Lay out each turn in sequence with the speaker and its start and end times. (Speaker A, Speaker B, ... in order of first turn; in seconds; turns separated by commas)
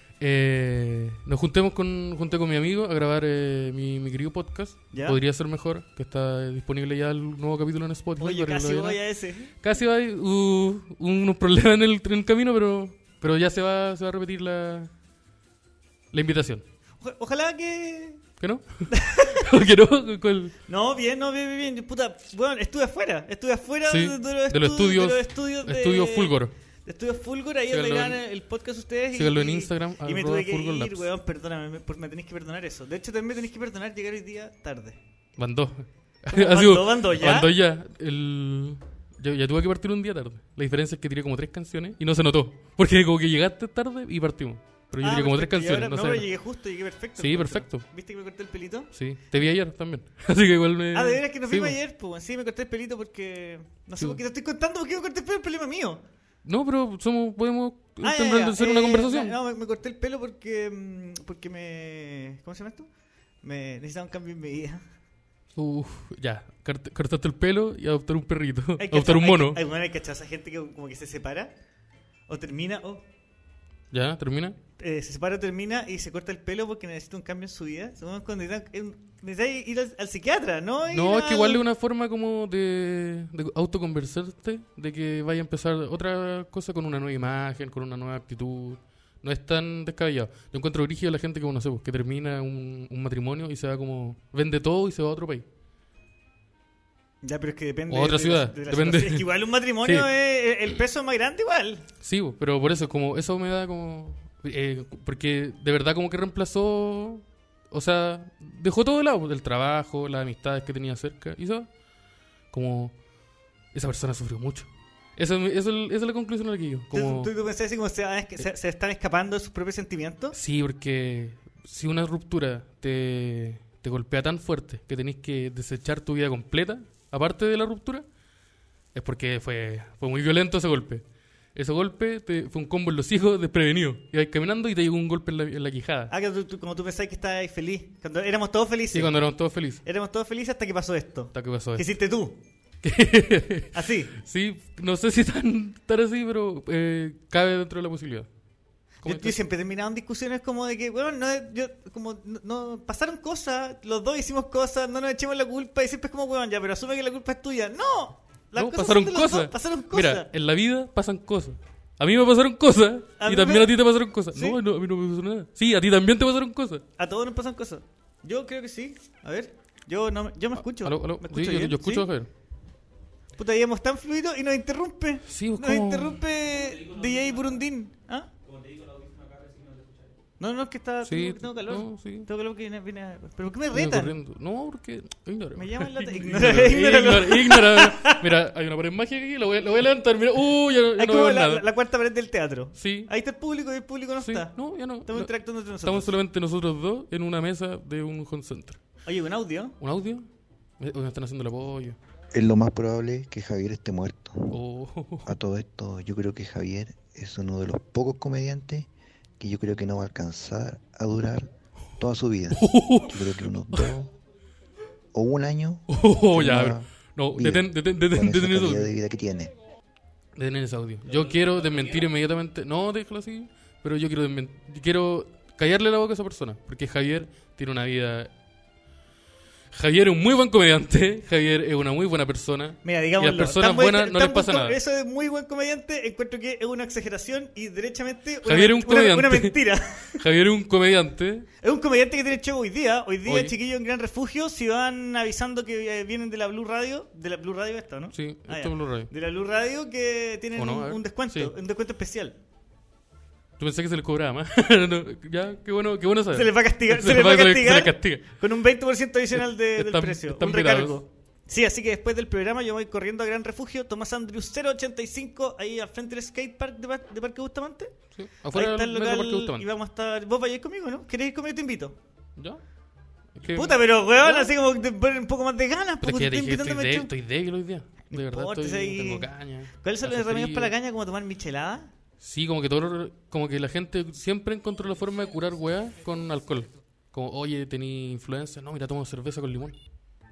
Speaker A: 0.2-9.0, Speaker B: 4.9-5.2, Speaker B: 8.2-9.5, Speaker A: 9.6-14.9, Speaker A: 16.1-16.6, Speaker B: 17.0-18.2, Speaker A: 18.4-20.6, Speaker B: 18.9-19.5, Speaker B: 20.7-35.0, Speaker A: 23.9-26.5, Speaker A: 27.7-28.2, Speaker A: 29.1-31.1, Speaker A: 35.4-46.3, Speaker B: 36.3-37.5, Speaker B: 45.0-48.9, Speaker A: 47.2-47.9, Speaker A: 48.9-51.8, Speaker B: 50.9-56.0, Speaker A: 56.5-59.4, Speaker B: 58.0-62.9, Speaker B: 63.4-64.8, Speaker A: 65.5-69.6, Speaker B: 68.8-71.5, Speaker B: 72.3-73.0, Speaker A: 73.9-74.6, Speaker B: 74.8-81.6, Speaker A: 80.9-95.5, Speaker B: 97.2-101.8, Speaker A: 97.9-99.3, Speaker A: 99.8-100.1, Speaker A: 102.0-111.7, Speaker A: 112.5-112.9, Speaker A: 113.7-117.3, Speaker B: 116.9-120.4, Speaker A: 120.3-128.1, Speaker A: 128.9-131.0, Speaker A: 131.6-136.1, Speaker B: 136.1-139.2, Speaker A: 138.9-139.8, Speaker B: 139.8-142.4, Speaker A: 141.3-141.9, Speaker A: 142.8-148.3, Speaker B: 143.7-144.1, Speaker B: 149.0-160.3, Speaker A: 149.0-149.4, Speaker A: 158.6-166.8, Speaker B: 163.2-163.8, Speaker B: 167.0-172.1, Speaker A: 170.6-172.3, Speaker B: 173.4-178.3, Speaker A: 175.3-176.2, Speaker B: 180.4-184.1, Speaker A: 181.1-182.3, Speaker A: 183.7-191.7, Speaker B: 185.6-188.2, Speaker B: 191.0-194.5, Speaker A: 192.8-193.1, Speaker A: 194.2-198.8, Speaker B: 195.1-196.1, Speaker B: 199.1-199.8, Speaker A: 199.8-200.2, Speaker A: 200.8-202.0, Speaker C: 202.3-204.6, Speaker A: 204.5-205.3, Speaker C: 205.3-214.1, Speaker A: 212.5-213.9, Speaker C: 215.1-219.5, Speaker A: 215.9-218.9, Speaker A: 220.4-228.3, Speaker A: 229.7-234.8, Speaker B: 232.8-240.2, Speaker A: 238.4-241.5, Speaker B: 241.6-252.4, Speaker A: 243.2-243.6, Speaker A: 248.1-249.1, Speaker A: 250.6-251.5, Speaker A: 253.6-258.4, Speaker B: 256.3-268.0, Speaker A: 259.3-261.0, Speaker A: 268.1-269.7, Speaker B: 268.5-272.0, Speaker A: 273.4-274.5, Speaker B: 273.5-277.1, Speaker A: 276.0-280.7, Speaker B: 278.1-281.9, Speaker A: 282.2-289.8